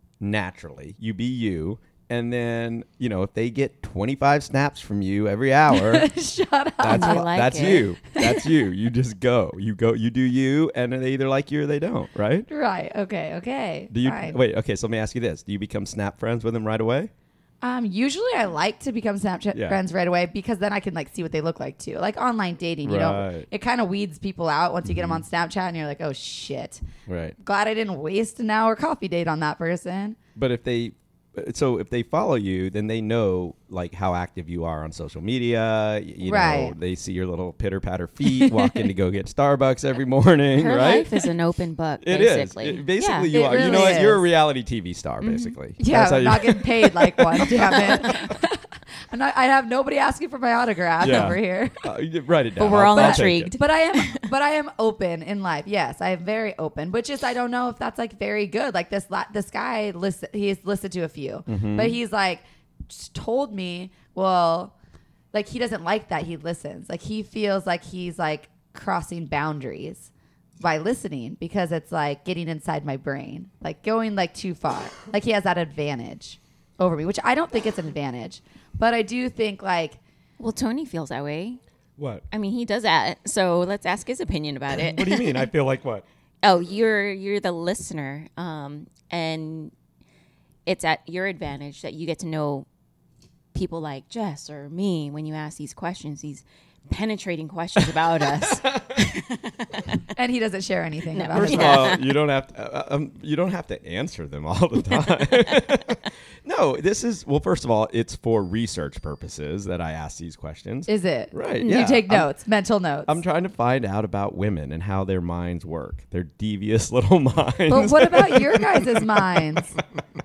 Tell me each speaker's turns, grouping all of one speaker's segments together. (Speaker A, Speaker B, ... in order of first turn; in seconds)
Speaker A: 0.2-6.1, 6.8-12.5, 13.9-17.1, 19.5-19.8, 22.8-23.5, 24.9-25.2, 27.1-27.4, 30.4-41.2, 42.0-48.2, 51.0-53.6, 61.5-62.0, 82.0-82.2, 84.8-86.0, 101.3-112.3, 113.1-119.4
Speaker B: 5.7-8.5, 12.5-14.4, 17.6-26.8, 27.4-30.2, 36.2-36.8, 38.3-38.8, 43.3-44.3, 45.8-51.8, 52.9-64.7, 65.3-80.0, 100.2-102.0, 110.9-113.2, 117.7-119.8
Speaker C: 6.9-7.9, 40.5-44.0, 45.2-45.6, 52.6-54.2, 80.4-81.6, 82.3-85.5, 86.4-89.7, 90.7-92.7, 93.5-100.0, 101.1-102.1, 111.6-111.9